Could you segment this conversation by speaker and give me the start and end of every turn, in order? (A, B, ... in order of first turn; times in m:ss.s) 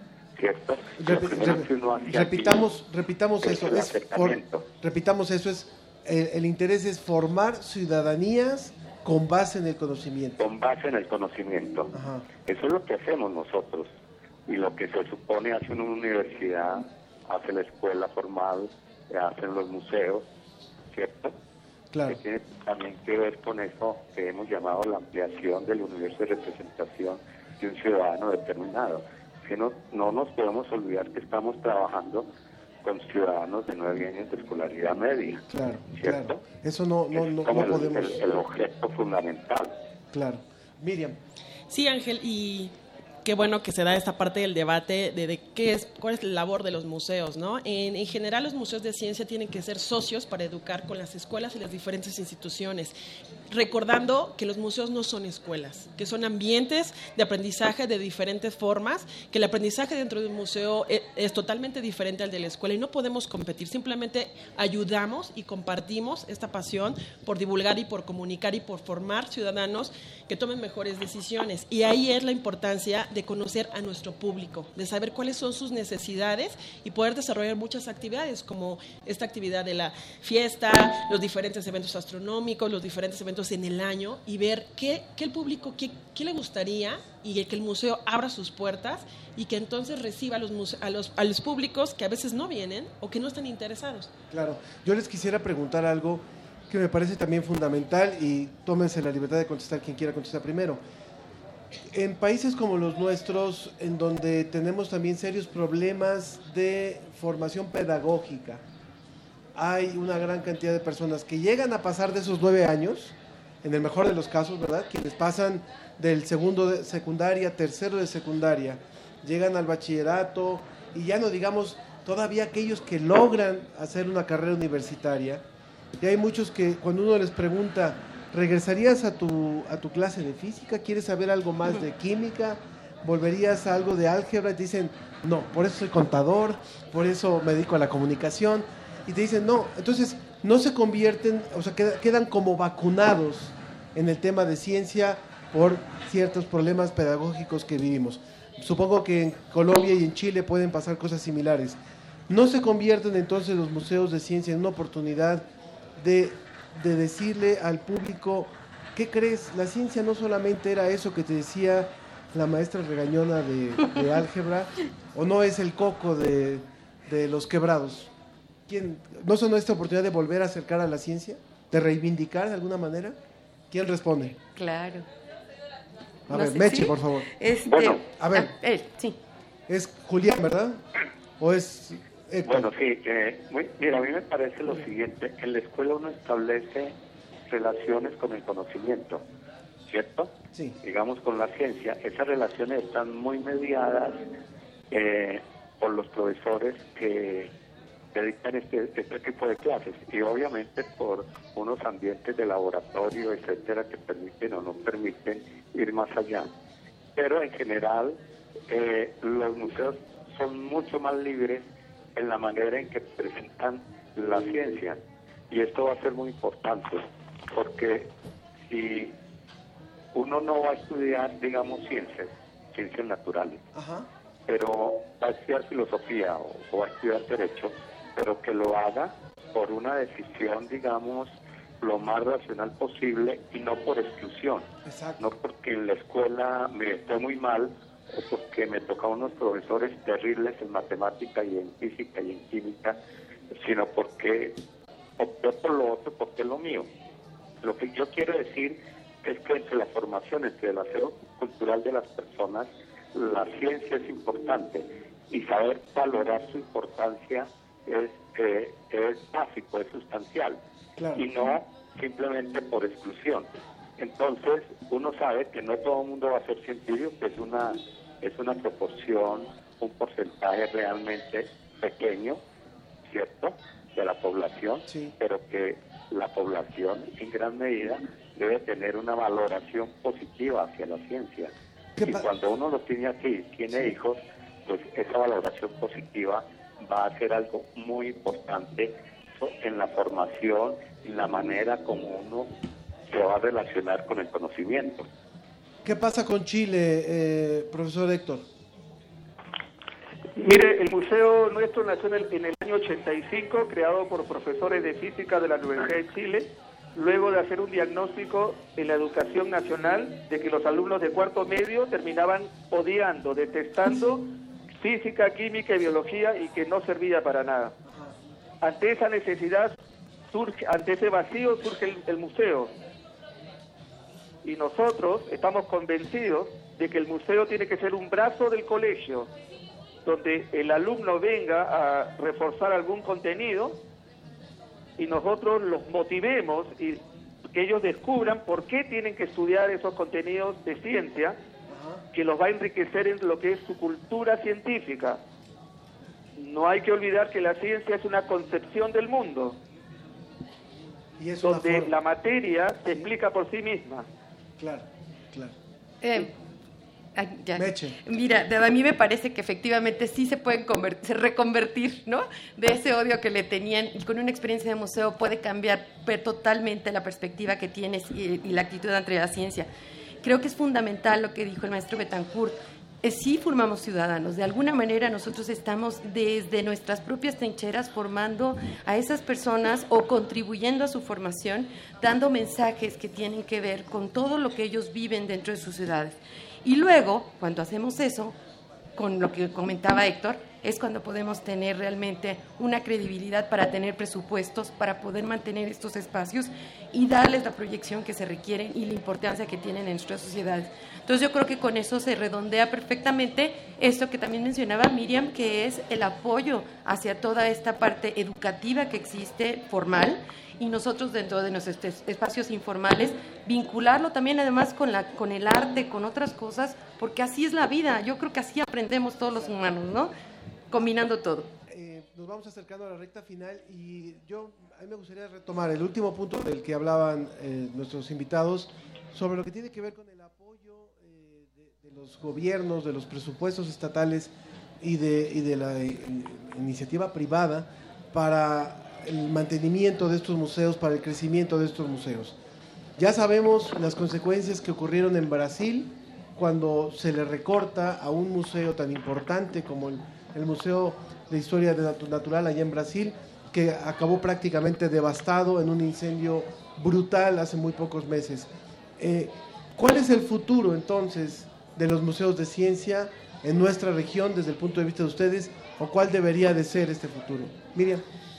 0:00.4-0:02.7 A
0:01.0-0:10.4 B
0:03.4-0:04.6 A
0:10.4-0:11.9 A
0:11.9-0:12.3 B
0:12.4-0:20.2 A
0:20.9-0:21.3 A
0:21.9-0:22.2 B
0:22.0-0:32.2 A
0:32.8-0:36.4 A
0:35.5-0:38.2 B
0:37.1-0:39.7 A
0:40.1-0:41.2 B
0:41.7-0:42.7 C
0:43.2-0:52.9 C
0:53.5-1:34.1 C
1:34.3-1:40.8 B
1:41.9-1:48.6 B
1:49.5-2:05.4 B
2:06.0-2:48.1 B
2:48.7-2:53.2 B
2:53.7-2:54.4 B
2:54.6-2:55.1 D
2:56.3-2:57.3 B
2:56.3-2:59.2 D
2:57.6-2:58.0 A
2:58.1-2:58.5 B
2:59.7-3:00.8 B
3:01.4-3:02.7 B
3:02.4-3:07.0 A
3:07.5-3:09.2 A
3:09.9-3:14.2 A
3:10.5-3:10.8 B
3:14.9-3:17.5 A
3:18.1-3:26.5 A
3:27.2-3:38.1 A
3:38.6-3:39.2 A
3:40.1-3:43.6 A
3:43.7-3:44.1 B
3:44.5-4:03.0 A
3:54.8-3:55.3 B
4:03.5-4:04.6 A
4:05.2-4:06.9 A
4:07.6-4:20.6 A
4:21.0-4:21.2 B
4:21.2-4:32.4 A
4:33.0-4:52.5 A
4:34.9-4:35.1 B
4:42.0-4:42.3 B
4:53.1-4:55.1 A
4:55.8-4:58.4 B
5:00.4-5:17.7 E
5:18.6-5:19.8 E
5:20.3-5:22.7 E
5:24.4-5:29.3 E
5:30.0-5:33.8 E
5:35.0-5:41.4 E
5:41.7-5:42.0 B
5:42.1-5:45.2 E
5:46.4-5:49.6 E
5:51.2-5:51.9 B
5:51.4-5:54.1 E
5:54.6-5:55.5 B
5:56.0-5:56.3 D
5:57.1-6:09.7 D
5:57.6-5:58.0 B
6:10.2-6:28.3 D
6:29.0-7:00.1 D
7:00.7-7:01.5 D
7:01.7-7:22.4 B
7:23.0-7:48.0 B